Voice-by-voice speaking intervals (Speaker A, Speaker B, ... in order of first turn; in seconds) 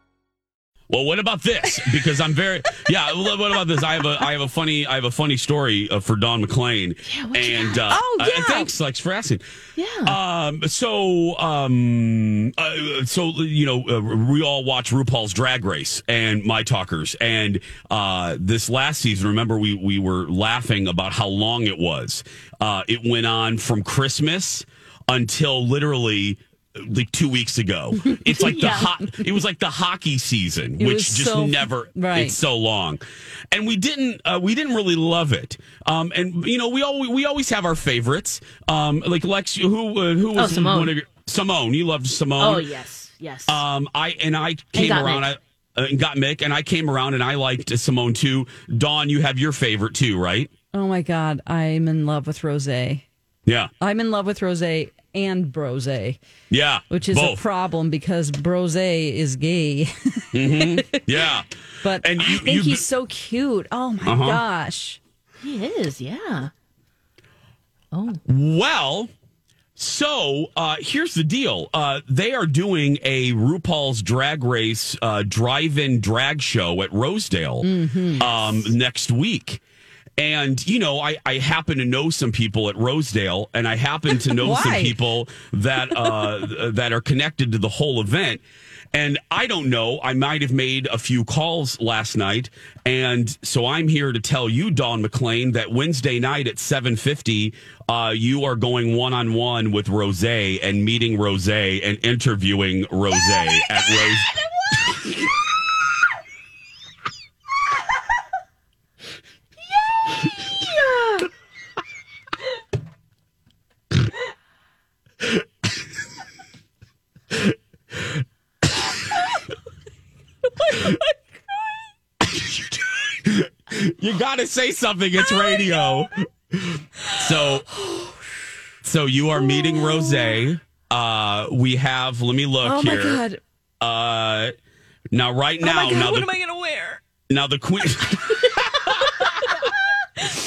Speaker A: 0.9-9.4, 10.1-42.7, 43.5-50.5, 53.5-53.7, 56.5-57.5, 60.3-61.5, 62.0-62.9, 64.0-64.4, 68.3-69.1, 69.8-79.6, 80.2-88.4, 88.9-104.3, 122.2-127.7, 128.8-133.2, 133.8-134.5, 135.1-136.3, 137.3-139.3
Speaker B: 7.0-7.8, 9.8-10.2, 28.4-28.9, 40.4-40.9, 42.4-43.6, 44.7-45.3, 65.4-66.5, 67.9-68.2, 109.8-111.3
Speaker C: 7.9-8.7, 30.8-32.4, 50.7-53.0, 53.8-56.2, 56.9-61.3, 61.8-65.0, 77.6-78.5, 84.3-85.0, 120.6-121.6, 125.2-126.1, 127.0-128.5, 129.3-130.4, 132.6-133.4, 135.6-137.0, 139.3-139.7